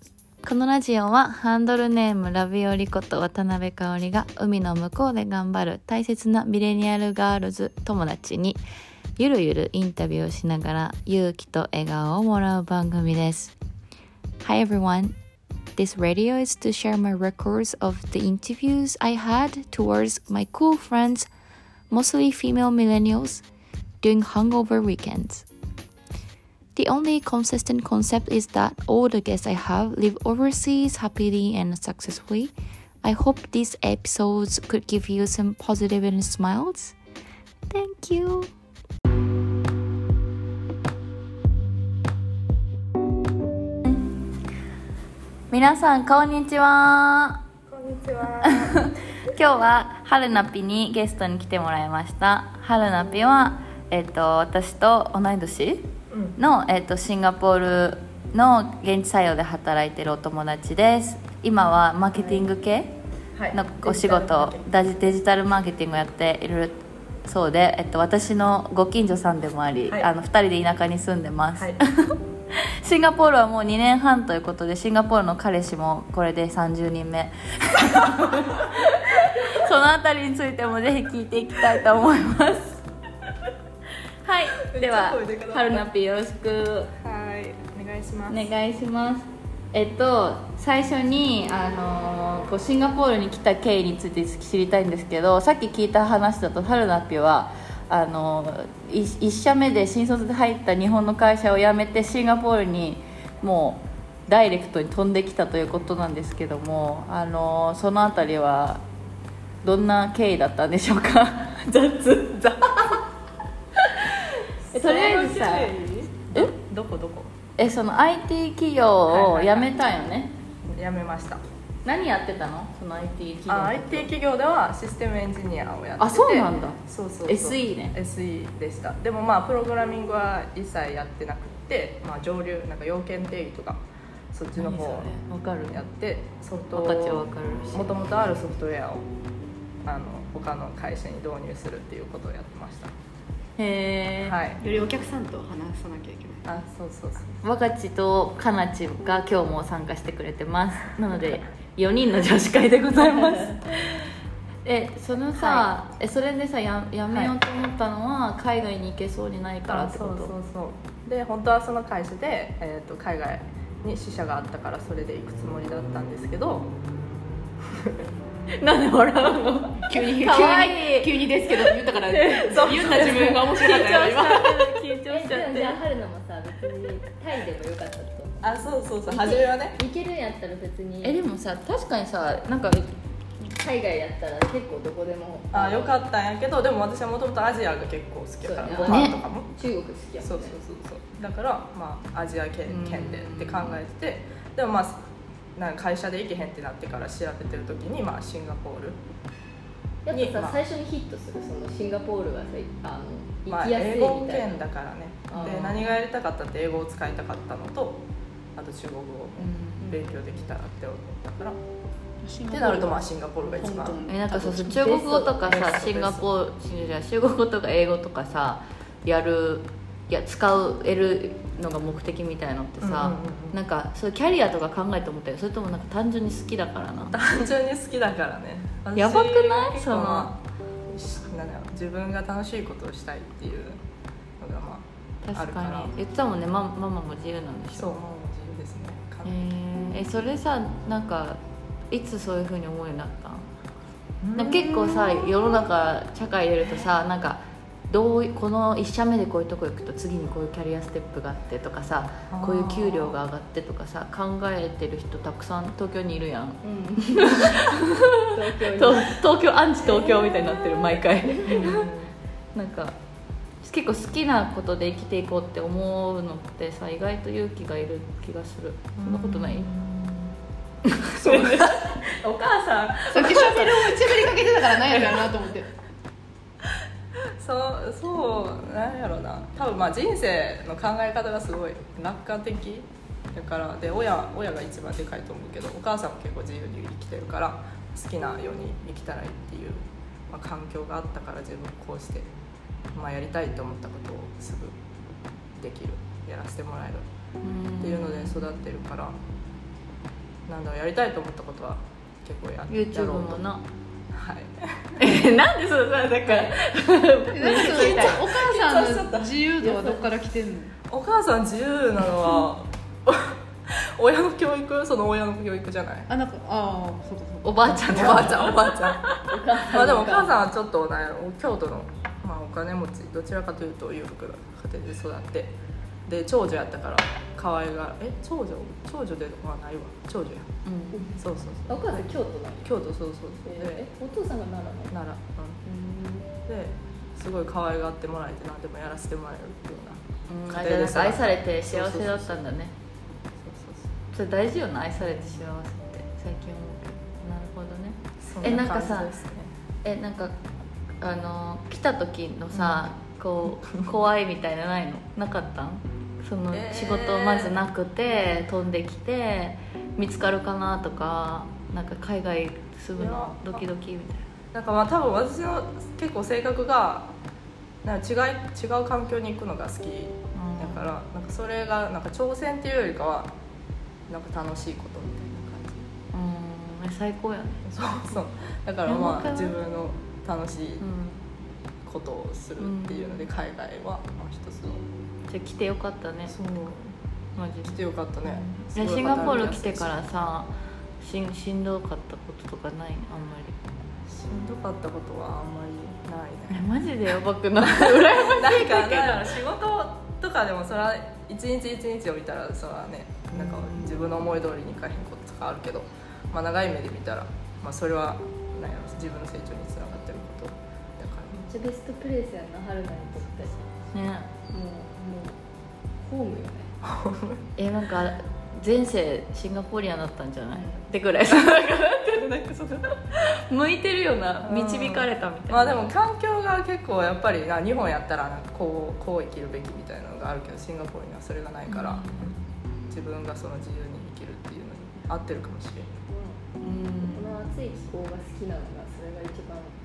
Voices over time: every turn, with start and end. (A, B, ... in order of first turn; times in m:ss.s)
0:00.4-0:08.6 A
0:09.2-0:13.5 A
0:14.4-0:15.2 A
0:15.8-0:21.3 A
0:21.9-0:23.4 A
0:24.0-0:25.5 A
0:26.8-0:37.0 A
0:37.7-0:38.5 A
0:45.5-0:47.4 A
0:47.7-0:48.9 B
0:48.4-1:02.9 A
0:56.1-0:56.4 B
1:02.2-1:02.4 B
1:03.4-1:04.6 B
1:03.5-1:22.8 A
1:11.6-1:11.8 B
1:24.2-1:26.9 A
1:24.7-1:25.9 B
1:27.0-1:28.4 B
1:28.3-1:48.8 A
1:49.6-1:53.0 A
1:53.8-1:55.8 A
1:54.7-1:57.4 B
1:57.6-2:00.3 A
1:59.1-1:59.7 B
2:00.7-2:01.4 B
2:01.8-2:04.1 A
2:03.5-2:13.8 B
2:06.0-2:08.0 A
2:14.3-2:15.1 B
2:14.6-2:15.8 A
2:15.7-2:19.1 B
2:16.7-2:18.3 A
2:19.8-2:22.9 B
2:23.6-2:24.4 A
2:24.2-2:24.6 B
2:24.6-2:26.4 C
2:26.5-2:27.4 B
2:27.4-2:34.0 A
2:34.6-2:40.3 A
2:35.3-2:35.6 B
2:39.7-2:46.7 B
2:47.7-2:48.0 B
2:48.6-2:51.6 A
2:49.8-2:54.7 C
2:52.1-2:55.8 A
2:52.5-2:53.3 B
2:55.1-3:01.2 D
2:58.4-2:59.8 B
3:01.0-3:02.9 A
3:03.6-3:06.0 D
3:05.5-3:09.5 B
3:08.4-3:10.6 D
3:08.9-3:09.2 A
3:10.2-3:19.0 B
3:12.7-3:13.8 A
3:20.1-3:24.6 D
3:20.1-3:20.6 B
3:23.5-3:28.0 B
3:25.3-3:25.8 D
3:25.3-3:25.8 A
3:28.6-3:31.6 B
3:29.4-3:30.1 A
3:32.2-3:34.9 C
3:32.5-3:34.0 B
3:34.1-3:47.2 A
3:34.8-3:35.4 D
3:35.4-3:36.2 B
3:42.8-3:43.6 B
3:47.1-3:53.8 B
3:49.0-3:50.3 A
3:54.4-3:55.9 B
3:55.2-3:57.9 A
3:57.7-3:59.4 B
3:59.2-4:03.5 A
4:04.2-4:05.5 B
4:04.4-4:21.9 A
4:12.3-4:13.2 B
4:16.6-4:17.8 D
4:18.3-4:19.2 D
4:19.8-4:20.5 D
4:21.3-4:21.7 D
4:21.4-4:22.1 B
4:22.6-4:23.0 A
4:23.6-4:29.7 A
4:29.0-4:30.4 B
4:30.8-4:32.0 A
4:31.2-4:33.6 B
4:33.1-4:35.7 C
4:33.1-4:34.3 A
4:37.4-4:52.3 B
4:52.9-4:54.8 B
4:55.6-4:57.0 B
4:57.4-4:58.4 A
4:57.8-4:59.2 B
5:00.5-5:03.4 B
5:02.7-5:03.6 A
5:04.1-5:05.0 B
5:05.0-5:08.2 A
5:07.3-5:10.7 C
5:07.4-5:09.3 B
5:09.6-5:10.1 D
5:10.9-5:16.1 B
5:16.1-5:18.6 C
5:17.4-5:19.3 A
5:17.9-5:19.0 B
5:19.3-5:20.4 D
5:19.7-5:25.6 B
5:26.1-5:30.5 B
5:30.6-5:31.2 A
5:31.2-5:32.1 B
5:31.7-5:32.7 D
5:32.6-5:33.9 B
5:33.4-5:34.9 D
5:34.9-5:35.6 B
5:35.6-5:36.3 D
5:36.5-5:42.4 B
5:40.3-5:42.7 A
5:43.4-5:43.9 B
5:44.1-5:49.1 A
5:45.0-5:45.4 B
5:48.2-5:49.5 B
5:49.8-5:50.4 A
5:51.0-6:04.3 A
5:52.5-5:52.8 B
5:56.5-5:57.6 B
6:03.0-6:03.6 B
6:04.5-6:07.1 B
6:07.8-6:13.3 B
6:10.4-6:10.9 A
6:14.1-6:15.9 B
6:16.1-6:17.7 A
6:17.6-6:20.8 B
6:18.9-6:19.5 A
6:20.8-6:21.2 A
6:21.8-6:24.9 B
6:22.6-6:23.3 A
6:25.3-6:26.4 A
6:26.3-6:27.0 B
6:27.4-6:33.6 A
6:27.6-6:30.0 B
6:34.1-6:36.7 B
6:36.5-6:39.3 A
6:37.6-6:51.5 B
6:43.4-6:43.9 A
6:51.5-6:53.6 D
6:53.9-6:54.3 A
6:54.5-6:55.4 D
6:56.0-6:56.7 D
6:56.8-6:57.4 B
6:57.6-7:05.8 A
7:00.5-7:00.8 D
7:04.4-7:12.4 B
7:11.7-7:12.4 A
7:12.9-7:16.1 B
7:16.1-7:16.4 D
7:16.6-7:17.4 A
7:17.0-7:19.8 D